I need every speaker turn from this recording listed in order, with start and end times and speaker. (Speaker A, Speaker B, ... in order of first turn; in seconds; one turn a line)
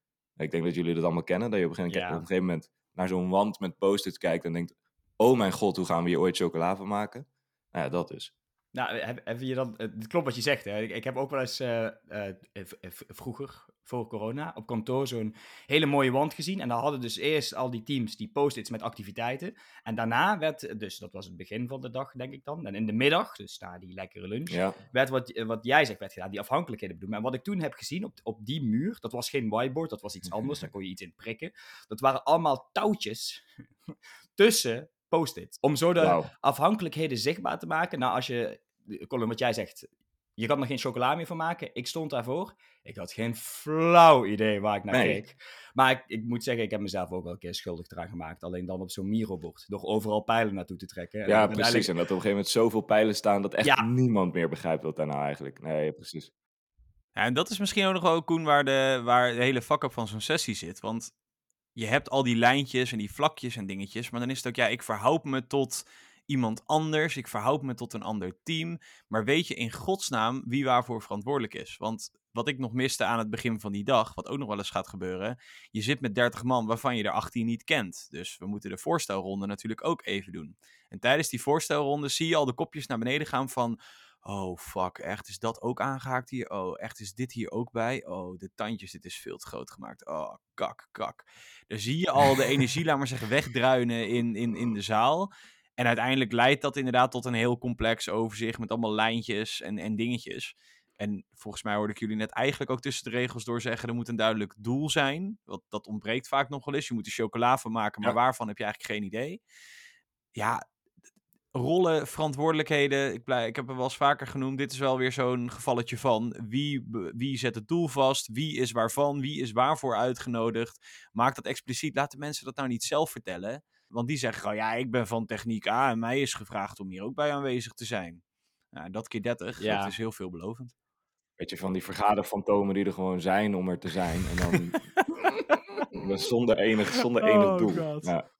Speaker A: 0.4-8.3
Speaker B: 1.9-2.2
Speaker B: 8.7-33.4
Speaker A: 24.5-24.8
Speaker B: 34.4-51.9
Speaker A: 36.0-36.3
Speaker A: 44.9-45.2
Speaker A: 51.2-56.3
Speaker C: 57.1-61.1
Speaker C: 61.7-109.4
Speaker C: 110.3-110.6
Speaker C: 111.5-128.2
Speaker C: 128.7-130.7
Speaker B: 129.6-129.9
Speaker A: 131.4-134.8
Speaker A: 135.9-138.2
Speaker C: 137.2-138.1